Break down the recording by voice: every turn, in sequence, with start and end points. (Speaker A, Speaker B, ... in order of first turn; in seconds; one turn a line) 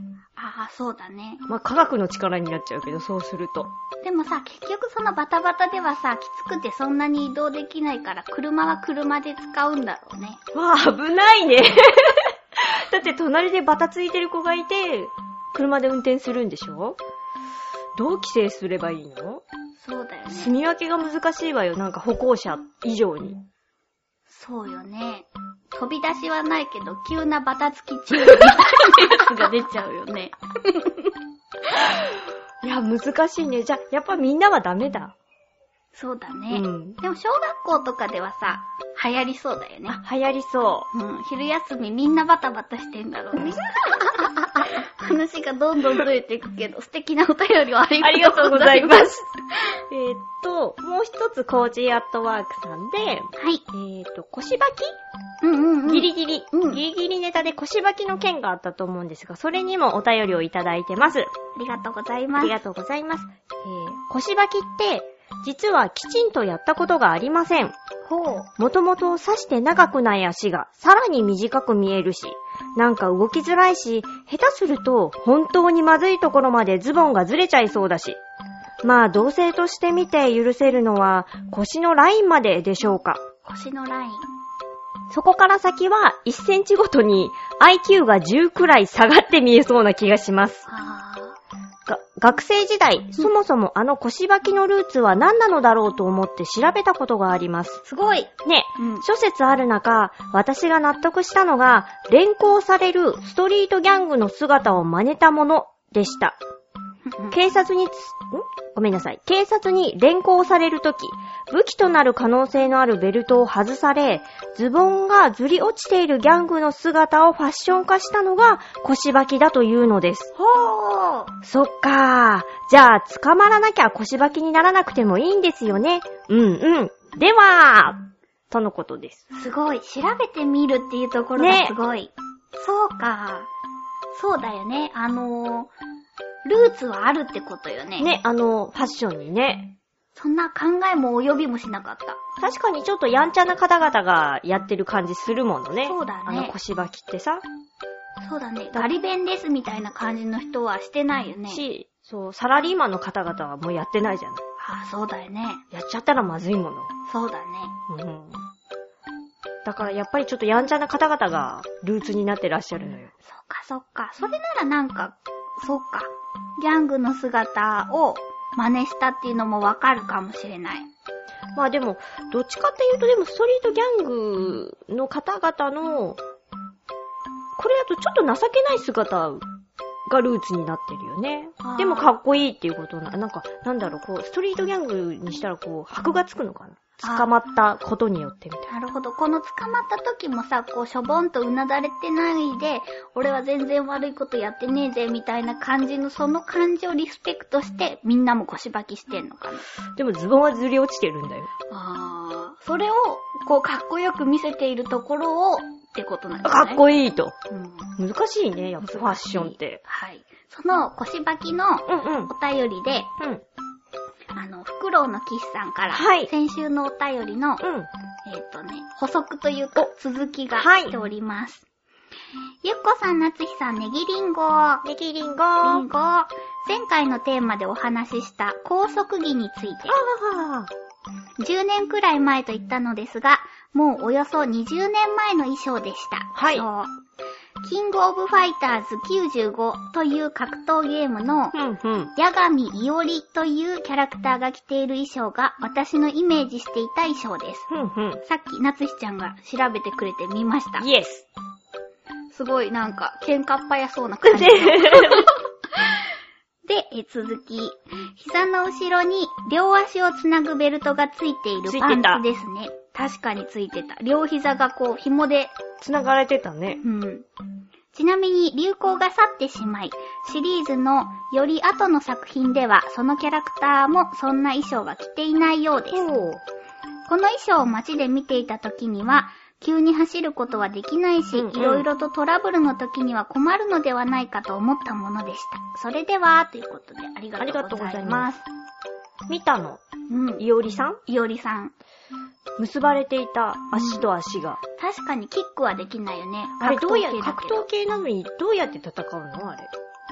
Speaker A: 0.4-1.4
Speaker B: 1.5-3.7
Speaker A: 4.0-10.4
Speaker B: 10.5-17.0
Speaker B: 17.9-19.4
Speaker A: 19.8-20.5
Speaker B: 20.3-23.5
Speaker A: 24.3-31.1
Speaker B: 31.8-35.1
Speaker A: 35.9-40.0
Speaker B: 36.5-37.0
Speaker B: 39.9-40.9
Speaker A: 40.9-49.8
Speaker B: 48.0-49.3
Speaker B: 49.9-55.0
Speaker A: 53.4-53.6
Speaker A: 55.4-56.8
Speaker B: 55.9-61.3
Speaker A: 61.6-62.6
Speaker B: 62.4-67.8
Speaker A: 68.1-68.5
Speaker B: 68.6-78.2
Speaker B: 78.8-83.2
Speaker A: 83.4-84.3
Speaker B: 85.1-90.7
Speaker A: 90.7-91.4
Speaker B: 91.9-97.8
Speaker A: 97.8-99.0
Speaker B: 98.4-106.4
Speaker A: 107.1-107.4
Speaker B: 107.3-120.3
Speaker A: 120.4-121.3
Speaker B: 121.4-129.2
Speaker A: 129.3-133.5
Speaker B: 131.4-131.8
Speaker A: 134.1-135.7
Speaker A: 136.4-138.2
Speaker B: 138.0-139.8
Speaker A: 140.1-142.2
Speaker B: 142.4-147.4
Speaker A: 145.8-146.5
Speaker A: 148.2-151.6
Speaker B: 151.5-154.4
Speaker A: 154.6-155.6
Speaker B: 155.7-156.9
Speaker A: 157.1-157.8
Speaker B: 157.9-158.4
Speaker B: 159.6-163.1
Speaker A: 163.2-170.9
Speaker B: 171.6-176.2
Speaker B: 177.6-179.4
Speaker B: 180.1-188.7
Speaker A: 181.6-182.1
Speaker A: 187.0-187.3
Speaker A: 188.7-199.7
Speaker B: 200.0-201.5
Speaker A: 201.7-206.8
Speaker B: 206.4-207.3
Speaker A: 207.5-207.9
Speaker B: 208.0-209.8
Speaker A: 208.8-213.1
Speaker B: 211.9-212.3
Speaker A: 214.3-217.6
Speaker B: 215.9-216.3
Speaker B: 217.6-217.9
Speaker A: 218.2-221.6
Speaker B: 220.6-220.9
Speaker A: 222.6-224.8
Speaker B: 224.8-225.9
Speaker A: 225.6-230.0
Speaker B: 229.9-230.7
Speaker A: 231.4-236.9
Speaker B: 236.3-236.7
Speaker A: 237.6-241.6
Speaker B: 241.5-242.1
Speaker A: 242.2-247.7
Speaker B: 247.7-248.2
Speaker A: 248.2-250.9
Speaker B: 250.8-251.2
Speaker A: 252.3-256.0
Speaker B: 254.2-255.3
Speaker A: 256.7-265.6
Speaker B: 261.7-262.2
Speaker B: 265.8-266.8
Speaker A: 266.8-267.3
Speaker A: 267.9-276.1
Speaker B: 275.9-276.4
Speaker A: 277.1-288.5
Speaker B: 281.3-281.9
Speaker B: 287.4-288.3
Speaker B: 289.3-289.8
Speaker A: 290.1-290.5
Speaker B: 290.4-291.0
Speaker A: 291.1-291.7
Speaker B: 292.6-294.6
Speaker A: 293.7-294.1
Speaker A: 294.8-297.7
Speaker B: 296.6-299.7